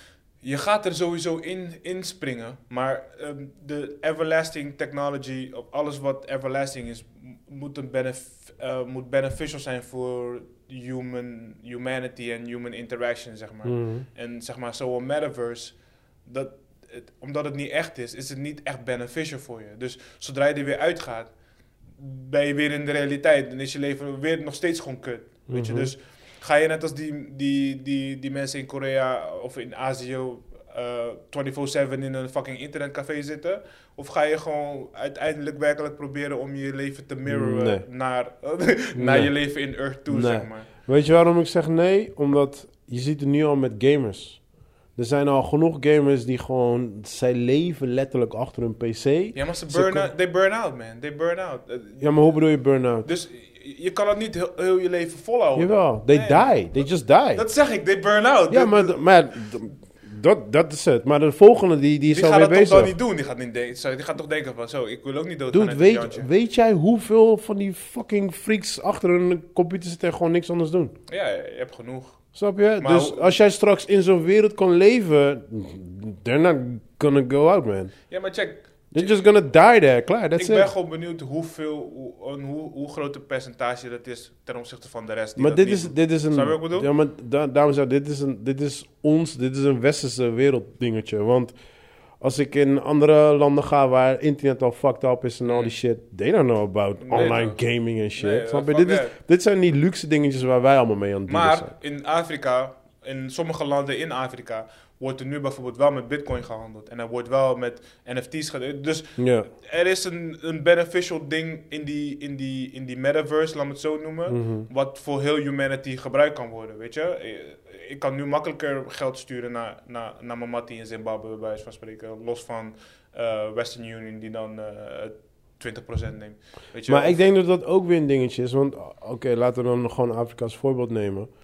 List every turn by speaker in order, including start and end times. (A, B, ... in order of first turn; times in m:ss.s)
0:00.4-0:21.3 A
0:13.6-0:14.1 B
0:22.0-0:40.7 A
0:25.5-0:25.9 B
0:37.3-0:37.8 B
0:39.0-0:39.4 B
0:40.1-0:44.4 B
0:45.0-0:50.1 B
0:49.4-0:52.5 A
0:52.0-0:53.1 B
0:53.0-0:56.8 A
0:55.6-0:57.4 B
0:57.3-0:59.0 A
0:58.5-1:02.9 B
1:02.1-1:06.3 A
1:05.5-1:11.0 B
1:11.1-1:12.2 A
1:12.4-1:18.0 B
1:12.8-1:13.4 A
1:18.1-1:19.3 A
1:18.9-1:20.7 B
1:20.4-1:26.9 A
1:25.4-1:31.6 B
1:32.2-1:41.7 B
1:35.4-1:35.7 A
1:37.0-1:39.2 A
1:41.3-2:07.2 A
1:49.2-1:49.5 B
1:54.3-1:54.7 B
2:06.9-2:11.3 B